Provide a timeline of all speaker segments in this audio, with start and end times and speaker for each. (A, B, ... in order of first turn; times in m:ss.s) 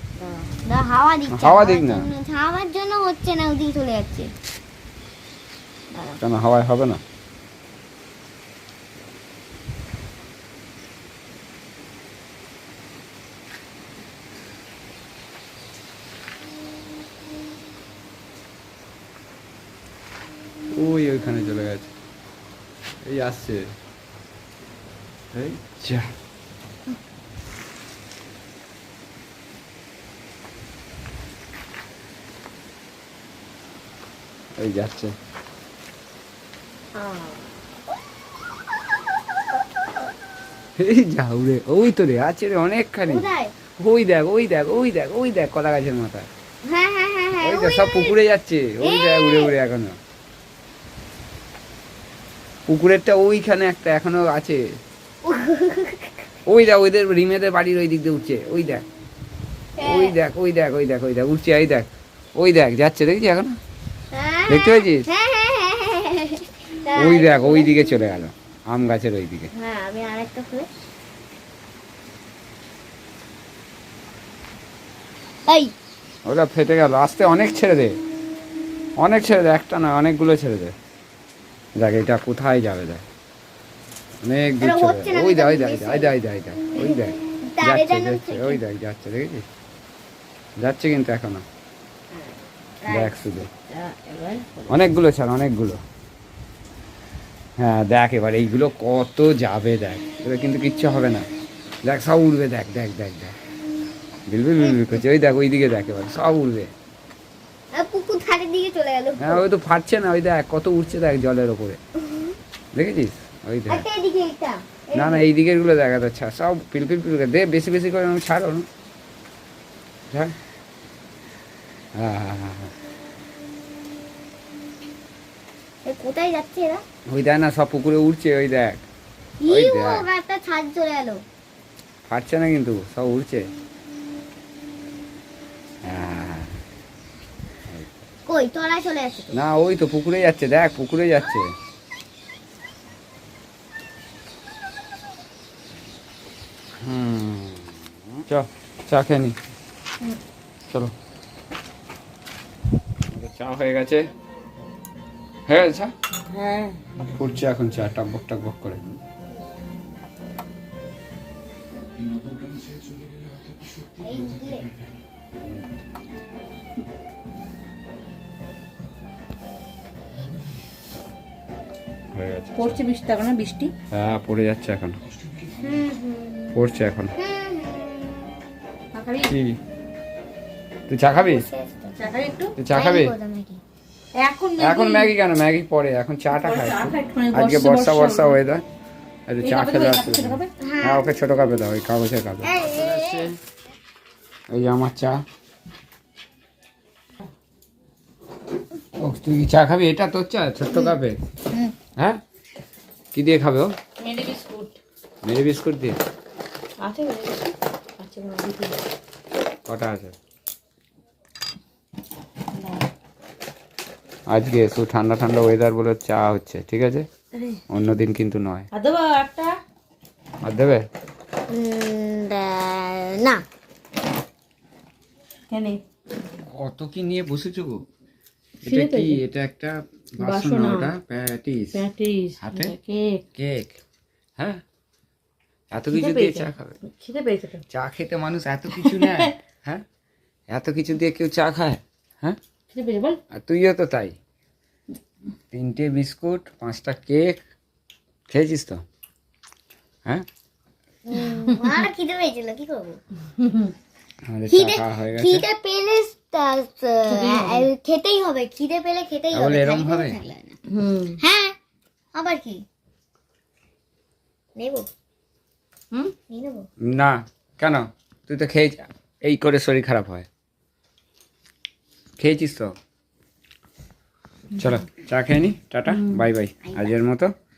0:00.2-0:04.3 A
0:01.3-0:02.1 B
0:05.9-0:06.2 A
0:06.2-0:07.0 B
0:20.7-0:21.9 B
0:23.0-0:23.8 B
0:25.3-0:26.1 B
0:34.6-0:35.1 B
0:36.9-0:37.5 A
0:40.8-0:46.3 B
0:43.0-0:43.5 A
0:46.6-0:48.2 A
0:47.4-0:50.0 B
0:48.8-0:49.5 A
0:52.7-0:54.6 B
0:55.2-0:56.1 A
0:56.4-0:58.8 B
0:59.8-1:00.2 A
0:59.8-1:03.6 B
1:04.1-1:07.7 A
1:04.5-1:05.1 B
1:06.9-1:09.5 B
1:09.5-1:10.7 A
1:15.5-1:15.7 A
1:16.2-1:18.0 B
1:19.0-1:20.7 B
1:21.8-1:23.0 B
1:24.2-1:29.4 B
1:24.6-1:26.1 A
1:26.8-1:28.6 A
1:30.6-1:31.4 B
1:32.8-1:34.9 A
1:32.9-1:33.5 B
1:34.7-1:35.8 B
1:37.6-1:41.3 B
1:41.8-1:43.3 B
1:44.3-1:46.7 B
1:44.6-1:45.0 A
1:47.7-1:49.4 A
1:49.2-1:51.8 B
1:52.0-1:52.4 A
1:52.7-1:53.8 B
1:53.7-1:55.3 A
1:54.9-1:58.7 B
2:00.1-2:00.3 B
2:01.9-2:02.7 B
2:05.8-2:06.8 A
2:07.1-2:08.8 B
2:09.4-2:11.2 A
2:09.5-2:10.0 B
2:12.1-2:13.5 B
2:15.8-2:16.6 B
2:17.7-2:18.0 B
2:18.2-2:19.4 A
2:19.3-2:21.5 B
2:26.8-2:29.4 B
2:33.1-2:34.1 B
2:35.5-2:35.9 B
2:36.3-2:36.8 A
2:37.0-2:39.0 B
2:44.0-2:44.7 A
2:52.1-2:52.7 B
2:52.5-2:53.7 C
2:53.9-2:55.0 B
2:55.6-2:56.6 A
2:56.5-2:57.1 B
2:57.2-2:58.4 A
2:58.9-2:59.3 C
2:59.2-2:59.6 B
3:00.9-3:01.4 B
3:01.0-3:02.0 A
3:02.0-3:02.6 C
3:02.6-3:03.1 B
3:02.7-3:03.6 A
3:04.1-3:05.1 C
3:04.6-3:08.6 B
3:06.3-3:08.4 C
3:09.3-3:13.4 B
3:09.4-3:10.5 C
3:10.6-3:11.1 A
3:12.4-3:13.3 A
3:14.5-3:15.2 B
3:19.0-3:21.2 B
3:20.7-3:21.0 A
3:22.0-3:22.2 B
3:23.1-3:23.8 B
3:24.0-3:24.8 C
3:25.2-3:26.0 B
3:26.8-3:28.8 C
3:29.6-3:30.1 B
3:32.5-3:32.9 C
3:34.3-3:37.1 B
3:37.7-3:38.7 B
3:38.7-3:39.6 C
3:40.4-3:40.8 B
3:41.5-3:43.4 A
3:45.5-3:45.8 C
3:46.4-3:47.8 B
3:48.6-3:49.2 C
3:48.6-3:51.8 B
3:50.2-3:50.9 C
3:51.7-3:53.2 C
3:52.4-3:52.7 B
3:53.3-3:53.8 B
3:54.4-3:54.6 B
3:55.7-3:56.8 B
3:55.9-3:57.6 C
3:57.7-3:59.8 B
3:58.7-3:59.3 C
4:00.5-4:02.4 B
4:02.7-4:03.2 C
4:03.3-4:04.2 B
4:05.5-4:07.4 B
4:08.3-4:08.8 B
4:11.0-4:13.0 A
4:13.4-4:13.7 C
4:14.3-4:15.4 B
4:14.5-4:20.6 A
4:17.1-4:17.7 C
4:19.3-4:20.2 B
4:20.7-4:21.2 C
4:21.2-4:21.6 A
4:22.1-4:22.6 A
4:24.6-4:24.9 A
4:26.3-4:26.7 A
4:26.8-4:30.3 B
4:32.2-4:32.7 B
4:34.6-4:37.3 B
4:35.9-4:36.3 C